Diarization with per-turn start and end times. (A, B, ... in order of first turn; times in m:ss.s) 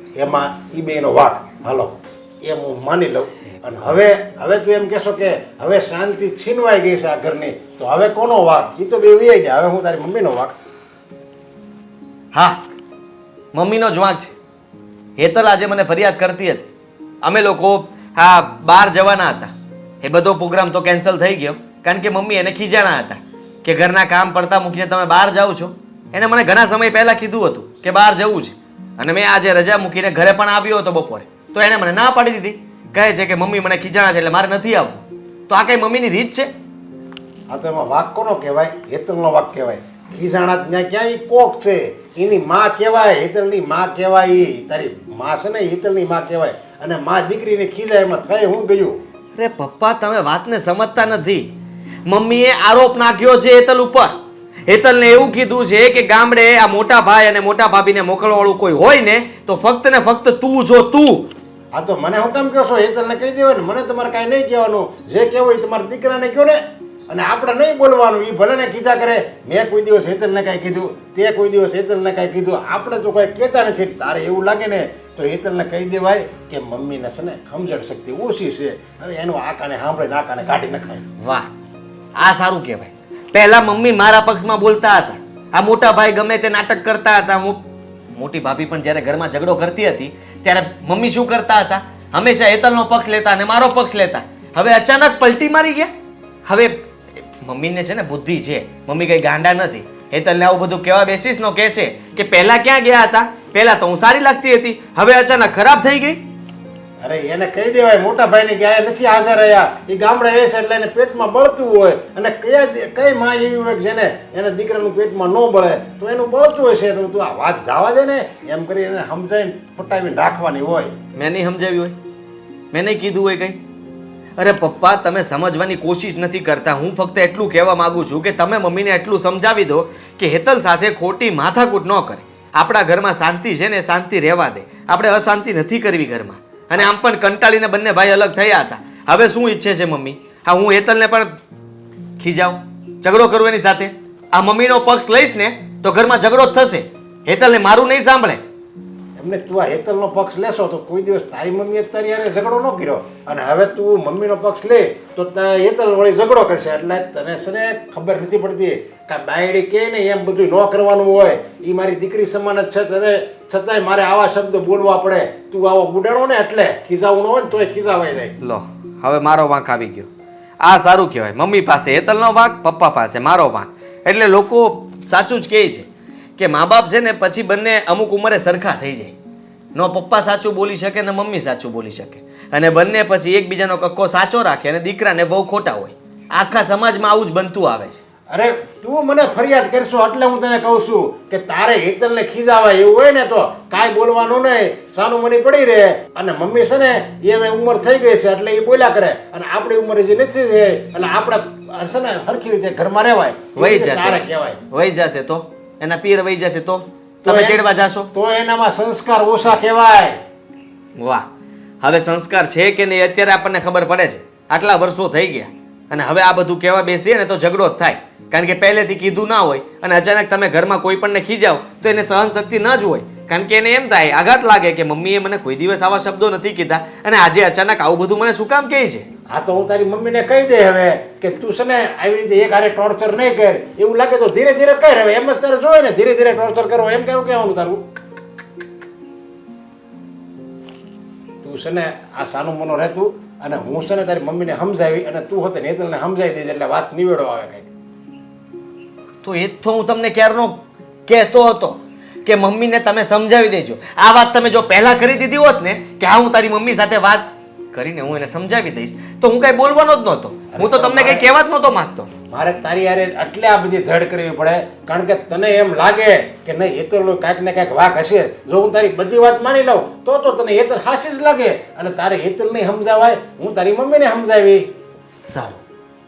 0:00.2-0:10.5 A
0:12.3-0:12.6 B
0:13.5-0:14.3 B
0:15.2-0:16.7 B
0:17.2-0:36.5 B
0:37.5-0:49.0 A
0:49.4-0:51.5 B
0:52.0-0:54.2 B
0:54.7-1:01.3 B
1:01.7-1:06.6 A
1:07.1-1:21.0 A
1:21.2-1:21.5 B
1:22.2-1:27.6 B
1:28.2-1:35.9 B
1:36.4-1:46.2 B
1:47.0-2:01.0 A
2:01.2-2:02.0 B
2:02.7-2:03.6 B
2:04.4-2:21.3 B
2:22.2-2:28.4 B
2:29.2-2:48.3 A
2:48.4-2:50.1 B
2:50.6-2:59.1 B
2:59.8-3:08.0 B
3:08.3-3:24.6 A
3:23.6-3:28.1 B
3:27.2-3:27.6 A
3:28.1-3:30.1 A
3:31.0-3:31.2 B
3:31.8-3:49.0 B
3:49.3-3:57.8 A
4:01.4-4:07.7 A
4:09.2-4:22.1 B
4:20.5-4:21.3 A
4:22.3-4:34.6 A
4:35.3-4:35.6 B